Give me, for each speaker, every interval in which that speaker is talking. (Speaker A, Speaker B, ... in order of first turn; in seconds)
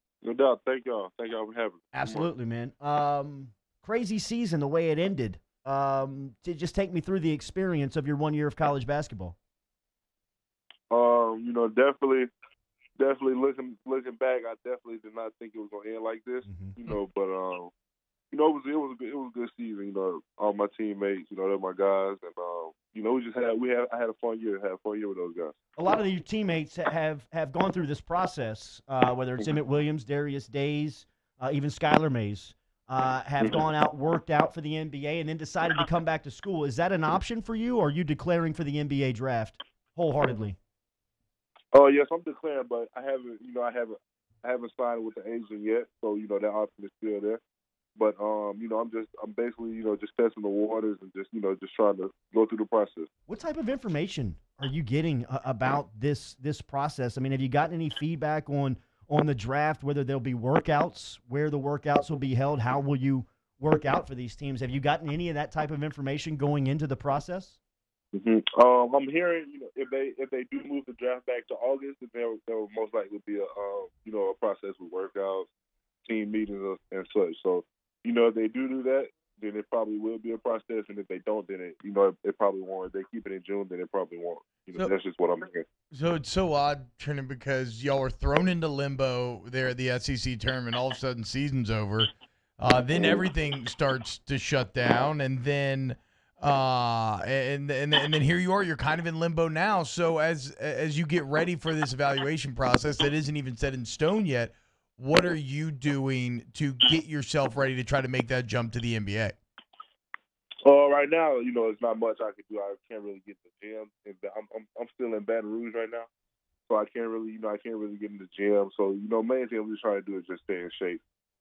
Speaker A: 0.2-2.3, 10.9-12.3, 13.0-17.7, 18.3-25.6, 41.7-47.4, 48.0-53.1, 68.1-75.5, 76.0-85.7, 110.6-116.1, 116.7-121.0
Speaker B: 1.9-9.4, 16.5-16.8, 25.8-40.6, 53.3-67.6
Speaker C: 85.9-109.4